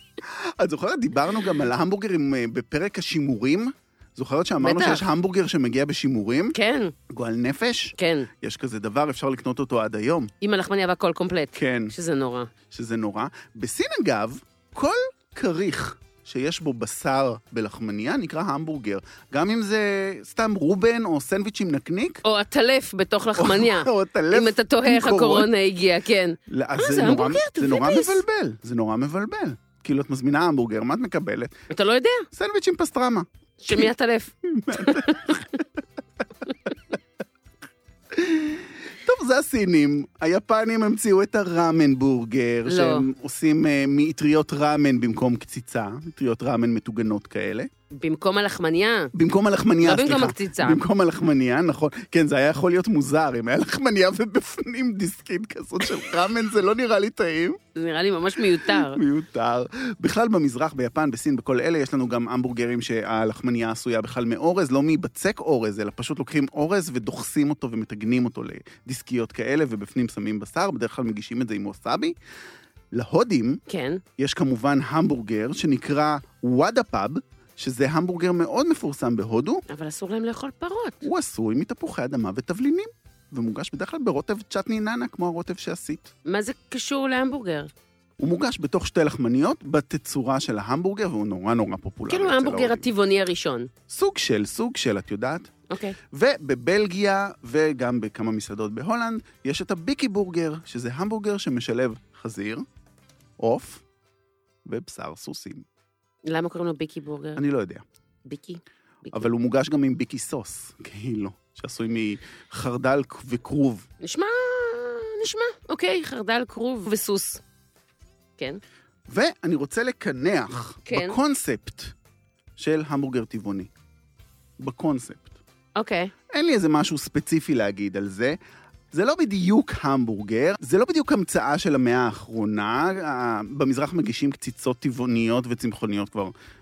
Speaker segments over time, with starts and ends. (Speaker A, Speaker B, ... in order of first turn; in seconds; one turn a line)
Speaker A: 0.2-6.5
Speaker B: 4.6-5.0
Speaker B: 6.5-6.9
Speaker A: 7.1-10.3
Speaker B: 8.0-8.3
Speaker B: 10.4-12.5
Speaker A: 11.5-11.9
Speaker A: 12.7-22.2
Speaker B: 22.2-28.2
Speaker A: 23.4-25.5
Speaker A: 26.5-31.6
Speaker B: 31.7-32.3
Speaker A: 32.3-33.9
Speaker B: 33.6-35.6
Speaker A: 34.4-35.6
Speaker A: 38.1-47.7
Speaker B: 42.7-43.1
Speaker B: 47.9-49.1
Speaker A: 49.1-57.6
Speaker B: 49.8-50.8
Speaker B: 57.7-59.0
Speaker A: 58.5-72.1
Speaker A: 72.9-73.6
Speaker B: 73.7-74.0
Speaker A: 74.2-79.6
Speaker B: 79.7-81.0
Speaker A: 81.0-86.1
Speaker B: 86.2-87.7
Speaker A: 88.2-92.8
Speaker B: 92.1-93.7
Speaker A: 93.9-95.5
Speaker B: 95.7-96.0
Speaker A: 96.1-102.6
Speaker A: 103.4-103.8
Speaker A: 104.6-105.7
Speaker B: 106.2-107.4
Speaker A: 107.3-107.8
Speaker B: 108.2-109.3
Speaker A: 109.1-113.8
Speaker B: 114.0-117.4
Speaker A: 119.1-121.9
Speaker B: 120.8-121.2
Speaker A: 122.6-123.7
Speaker A: 124.6-125.3
Speaker B: 125.8-126.1
Speaker A: 126.3-128.4
Speaker A: 128.9-136.3